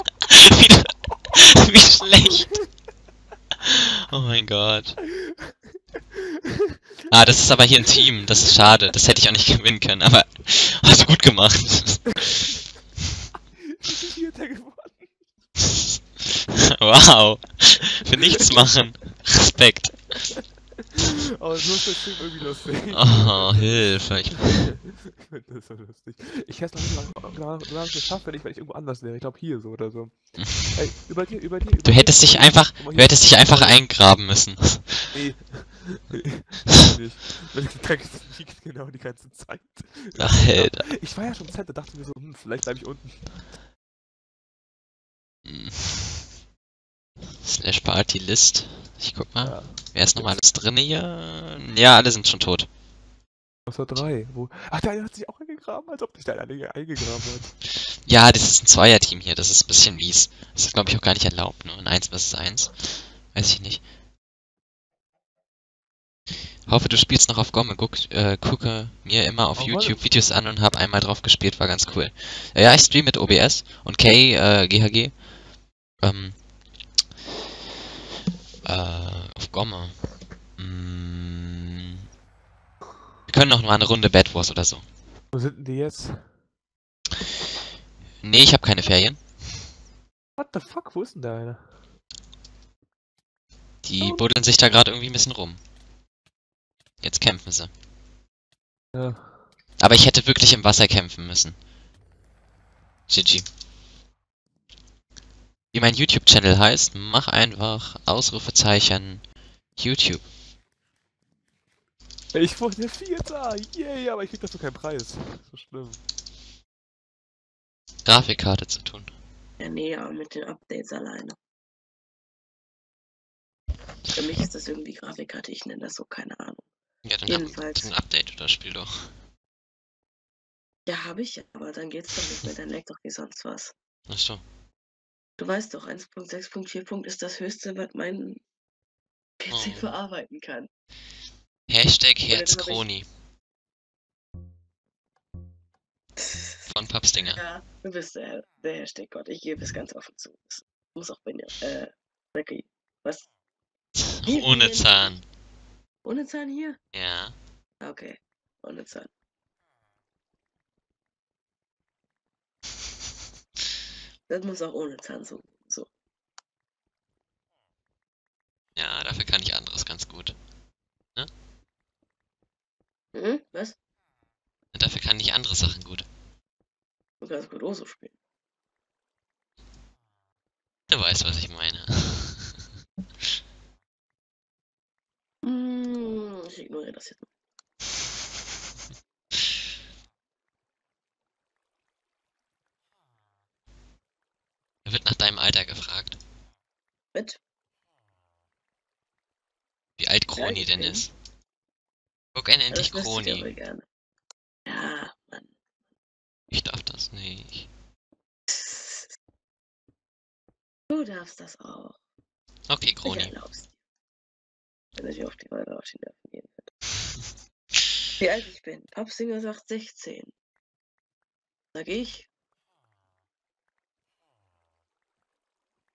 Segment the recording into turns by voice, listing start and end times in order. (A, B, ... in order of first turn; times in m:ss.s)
0:00.3-0:02.6 A
0:03.6-0:05.0 A
0:05.2-0:06.5 B
0:07.1-0:12.3 A
0:13.6-0:15.2 B
0:15.6-0:20.2 A
0:21.0-0:33.8 B
0:22.9-0:24.8 A
0:31.8-0:35.1 A
0:35.1-0:43.4 B
0:40.2-0:40.9 A
0:45.4-0:46.3 A
0:47.4-0:52.7 A
0:49.4-0:50.4 B
0:53.7-0:57.5 B
0:58.0-1:03.8 A
1:06.7-1:15.2 A
1:09.6-1:10.0 B
1:16.0-1:16.4 A
1:18.6-1:20.0 A
1:20.6-1:22.0 A
1:23.3-1:24.8 A
1:25.3-1:26.4 B
1:28.2-1:29.6 A
1:30.4-1:31.7 B
1:33.8-1:35.6 A
1:37.0-1:37.7 A
1:38.9-1:39.5 B
1:39.8-1:41.6 A
1:43.1-1:43.5 A
1:45.7-1:49.2 A
1:49.8-1:50.3 A
1:52.3-1:56.0 B
1:58.0-1:59.1 A
1:59.6-2:01.4 C
2:04.1-2:06.7 C
2:07.0-2:09.1 A
2:07.3-2:07.9 C
2:10.9-2:13.7 C
2:14.1-2:14.4 A
2:15.4-2:18.4 C
2:19.4-2:20.7 C
2:19.5-2:19.9 A
2:21.7-2:23.1 A
2:22.3-2:22.8 C
2:26.2-2:26.7 C
2:26.7-2:27.4 A
2:27.3-2:33.3 C
2:34.0-2:35.2 A
2:34.2-2:35.1 C
2:36.0-2:36.8 C
2:36.9-2:37.4 A
2:37.8-2:39.1 C
2:44.3-2:45.9 C
2:48.8-2:50.4 A
2:53.1-2:53.8 C
2:54.7-2:56.1 A
2:57.2-2:58.2 C
3:00.9-3:02.7 A
3:05.4-3:07.3 C
3:14.8-3:16.2 A
3:17.1-3:17.4 C
3:20.0-3:21.1 A
3:20.4-3:21.1 C
3:22.4-3:23.5 A
3:22.7-3:23.8 C
3:24.7-3:25.6 C
3:26.5-3:27.7 A
3:28.5-3:29.1 C
3:30.9-3:32.0 C
3:32.7-3:33.3 A
3:33.0-3:33.7 C
3:35.0-3:36.7 C
3:38.2-3:40.3 C
3:41.7-3:42.3 C